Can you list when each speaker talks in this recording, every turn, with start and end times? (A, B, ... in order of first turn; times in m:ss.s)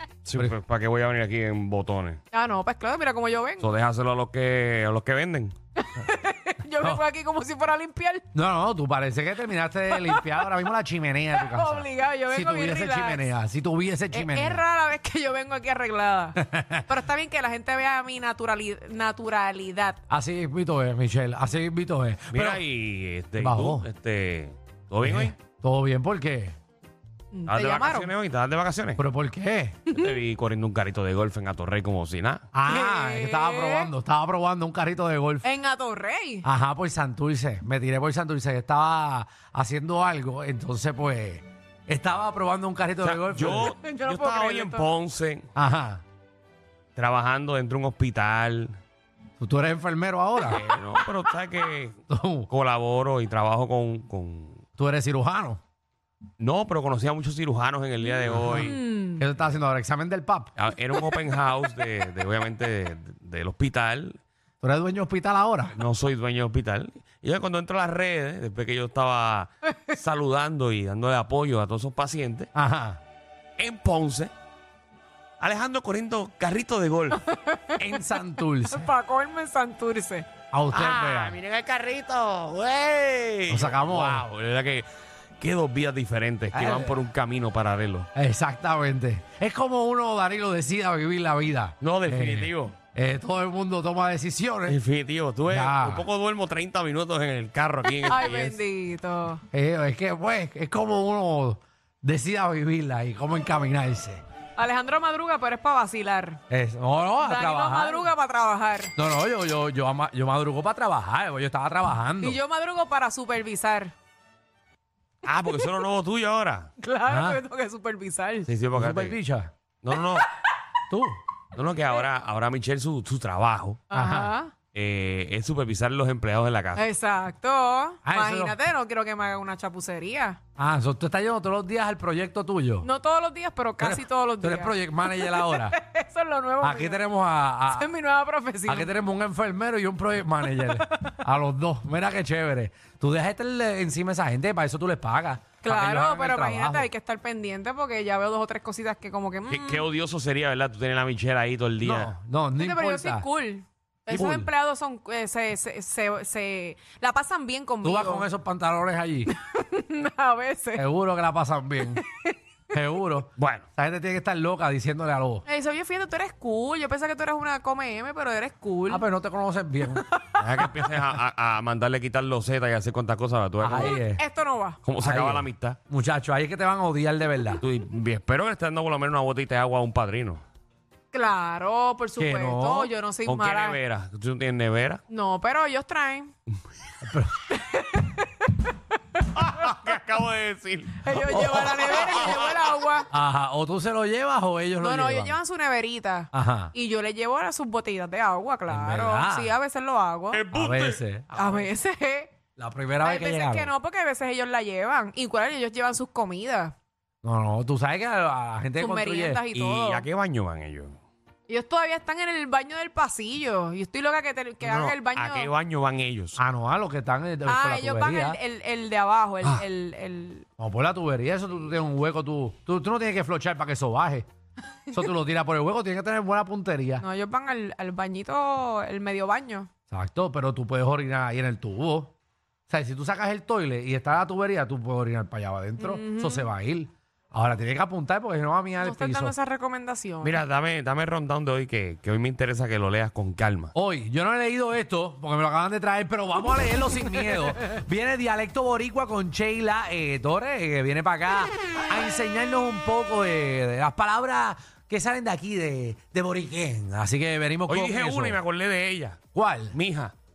0:00.2-0:02.2 A
0:02.3-0:03.7 B
0:03.6-0:05.5 A
0:05.8-0:08.2 B
0:08.3-0:14.6 C
0:09.9-0:10.4 B
0:11.4-0:13.3 B
0:14.1-0:20.0 B
0:16.4-0:16.9 C
0:20.1-0:22.6 C
0:22.3-0:25.3 A
0:23.4-0:23.9 C
0:25.0-0:26.6 C
0:27.3-0:28.1 B
0:27.5-0:29.0 A
0:29.0-0:29.8 C
0:29.9-0:32.4 A
0:32.5-0:35.4 C
0:32.7-0:33.9 B
0:35.4-0:36.4 B
0:36.4-0:43.7 C
0:43.0-0:45.5 A
0:43.6-0:44.9 B
0:45.6-0:46.0 C
0:47.0-0:48.8 A
0:49.4-0:50.6 C
0:50.4-0:52.0 A
0:52.1-0:52.5 C
0:52.5-0:54.6 A
0:54.8-0:55.6 C
0:56.4-0:58.8 A
0:58.3-1:00.5 C
0:58.4-0:59.2 B
1:00.6-1:04.2 A
1:04.6-1:05.8 C
1:05.7-1:12.5 A
1:12.5-1:13.0 C
1:13.6-1:14.3 A
1:15.4-1:17.2 A
1:17.2-1:20.3 B
1:17.8-1:18.9 C
1:20.5-1:21.4 C
1:20.7-1:24.9 A
1:23.5-1:24.2 C
1:25.4-1:28.1 A
1:26.5-1:27.0 C
1:28.1-1:34.8 C
1:31.8-1:32.8 A
1:34.7-1:38.6 A
1:35.5-1:36.0 C
1:38.0-1:39.4 B
1:39.5-1:44.2 C
1:44.6-1:46.4 B
1:46.5-1:48.1 C
1:47.2-1:48.9 B
1:49.0-1:52.4 C
1:52.2-1:53.9 B
1:55.2-1:56.7 A
1:56.8-1:58.5 B
1:57.0-1:57.4 C
1:58.4-1:59.2 A
1:58.8-1:59.5 C
1:59.8-2:00.3 A
2:00.9-2:01.2 C
2:01.5-2:03.8 A
2:03.9-2:04.4 C
2:03.9-2:04.5 B
2:04.7-2:06.8 A
2:06.8-2:10.4 B
2:08.0-2:08.6 C
2:10.6-2:12.9 C
2:12.8-2:17.0 B
2:13.8-2:15.8 C
2:16.6-2:17.9 C
2:17.7-2:18.9 B
2:18.6-2:26.9 C
2:25.6-2:29.8 B
2:29.5-2:32.1 A
2:31.8-2:33.2 C
2:32.6-2:38.3 B
2:34.1-2:34.5 C
2:37.8-2:39.3 C
2:39.3-2:40.8 B
2:40.7-2:42.0 C
2:41.8-2:42.3 B
2:42.7-2:45.4 C
2:43.4-2:43.6 A
2:45.4-2:49.0 B
2:48.9-2:50.0 C
2:50.4-2:54.0 A
2:53.6-2:54.2 C
2:53.7-2:54.8 B
2:54.8-2:55.8 A
2:55.0-2:57.6 C
2:57.6-3:00.4 A
3:01.1-3:03.8 B
3:02.2-3:02.9 C
3:03.2-3:05.0 A
3:05.1-3:06.3 B
3:07.0-3:07.4 C
3:07.5-3:08.7 B
3:09.3-3:12.6 A
3:11.0-3:13.1 B
3:11.1-3:11.9 C
3:13.1-3:15.4 C
3:14.8-3:20.4 B
3:16.3-3:16.7 C
3:18.7-3:19.5 C
3:20.3-3:21.0 A
3:20.5-3:21.7 C
3:21.3-3:22.3 B
3:22.6-3:23.7 C
3:23.0-3:26.7 B
3:27.2-3:29.4 C
3:28.8-3:30.0 B
3:29.5-3:31.0 A
3:31.5-3:35.5 B
3:34.6-3:36.4 A
3:36.4-3:38.4 C
3:37.4-3:40.4 B
3:40.6-3:44.2 C
3:44.9-3:47.0 C
3:47.0-3:49.7 B
3:49.9-3:52.1 C
3:52.7-3:59.3 C
3:55.8-3:56.5 B
3:58.8-4:00.4 B
4:00.2-4:03.7 A
4:03.7-4:18.4 C
4:17.7-4:20.1 A
4:19.3-4:19.8 C